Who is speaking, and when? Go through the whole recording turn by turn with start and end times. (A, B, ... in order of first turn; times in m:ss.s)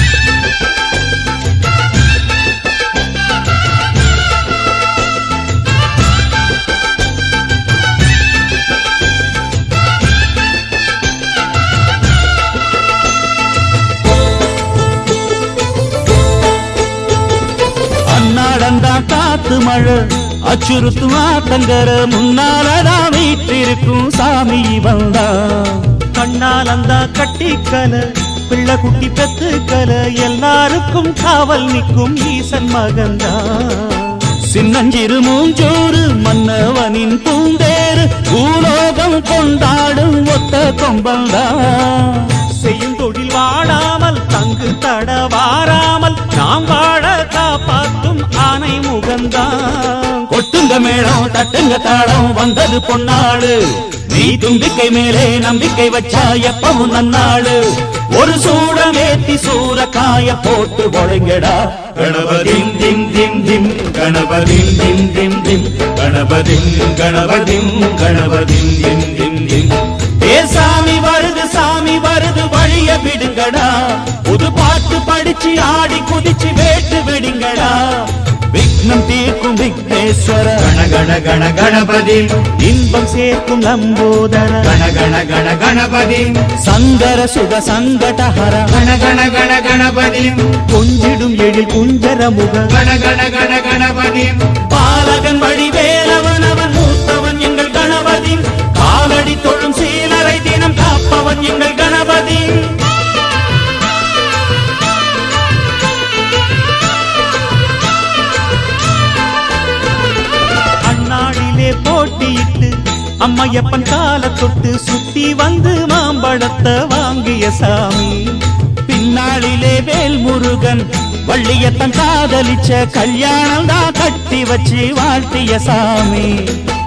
0:18.0-0:26.0 A
0:26.1-0:34.3 B
0:34.4-0:42.4 A
0:42.4-0:50.3 B
0:50.3-1:20.8 A
1:20.7-1:22.4 C
1:22.5-1:24.8 B
1:24.8-1:26.4 C
1:26.5-1:28.8 A
1:28.8-1:30.5 C
1:30.6-1:32.8 B
1:32.8-1:34.4 C
1:34.5-1:42.9 A
1:50.8-1:58.4 B
1:58.8-2:06.7 A